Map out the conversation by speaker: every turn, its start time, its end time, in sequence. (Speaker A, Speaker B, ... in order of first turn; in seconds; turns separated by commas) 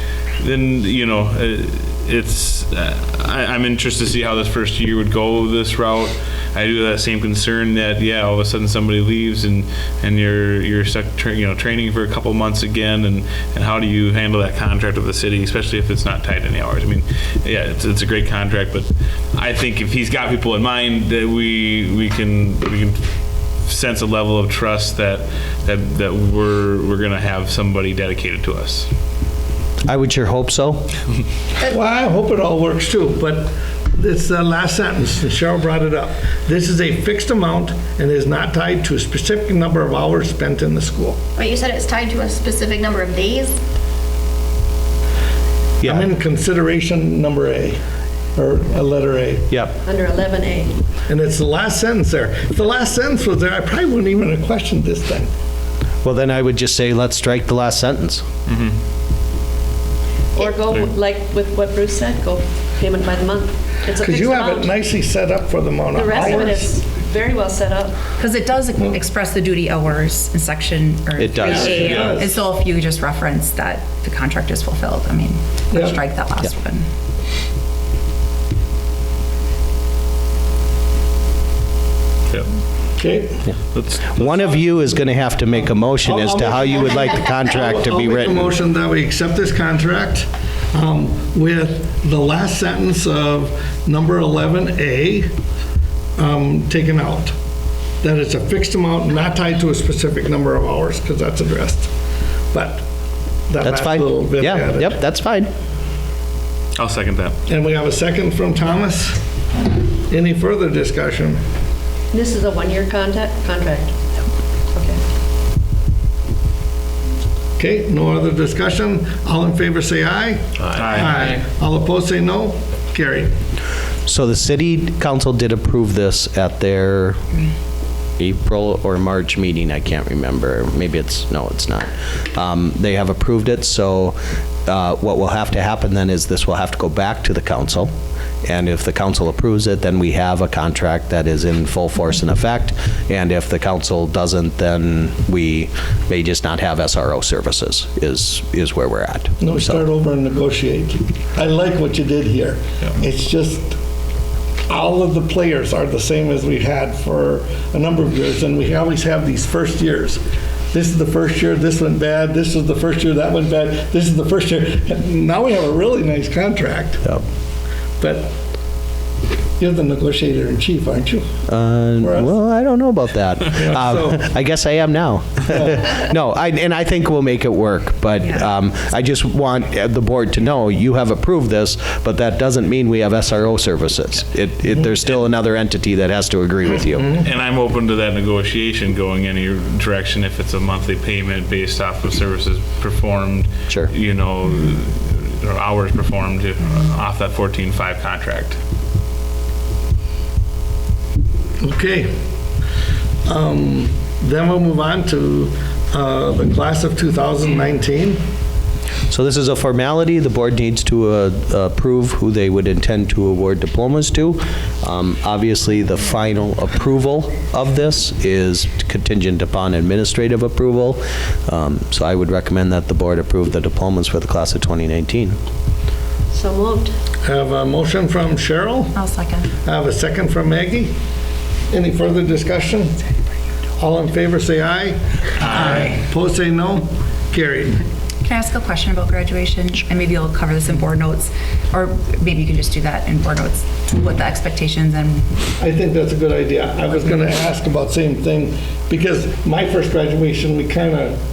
Speaker A: 0.4-23.0, Speaker A: 23.7-28.9, Speaker B: 29.9-30.9, Speaker C: 31.7-41.2, Speaker D: 41.4-43.6, Speaker B: 45.8-46.1, Speaker C: 45.8-47.8, Speaker C: 48.4-49.5, Speaker E: 49.8-50.8, Speaker C: 51.1-55.3, Speaker B: 56.0-58.2, Speaker A: 58.5-58.8, Speaker E: 60.4-64.8, Speaker C: 64.0-66.7, Speaker E: 65.9-68.0, Speaker F: 66.2-66.5, Speaker F: 68.2-76.9, Speaker B: 71.2-72.1, Speaker C: 71.5-72.3, Speaker C: 75.7-76.0, Speaker C: 83.0-83.5, Speaker A: 83.7-84.6, Speaker B: 84.1-88.5, Speaker C: 86.0-95.3, Speaker C: 96.2-97.3, Speaker C: 98.0-101.9, Speaker C: 102.5-102.9, Speaker C: 103.5-105.0, Speaker B: 103.6-105.5, Speaker A: 106.8-107.4, Speaker C: 107.5-109.2, Speaker C: 110.1-111.4, Speaker E: 112.1-114.0, Speaker E: 114.8-115.0, Speaker C: 117.6-123.3, Speaker A: 120.8-121.4, Speaker B: 124.1-127.2, Speaker B: 128.2-137.9, Speaker B: 138.4-149.8, Speaker C: 149.4-153.8, Speaker C: 154.7-167.2, Speaker C: 168.0-168.4, Speaker C: 169.6-171.3, Speaker B: 171.5-187.1, Speaker C: 172.0-172.3, Speaker C: 173.5-174.2, Speaker A: 187.2-198.6, Speaker C: 201.6-202.2, Speaker C: 203.2-208.2, Speaker B: 209.1-225.4, Speaker E: 226.3-226.9, Speaker C: 227.2-229.0, Speaker F: 228.9-229.5, Speaker C: 229.6-231.0, Speaker C: 231.7-233.0, Speaker C: 233.8-237.9, Speaker F: 235.5-236.0, Speaker F: 238.2-245.3, Speaker C: 245.6-251.2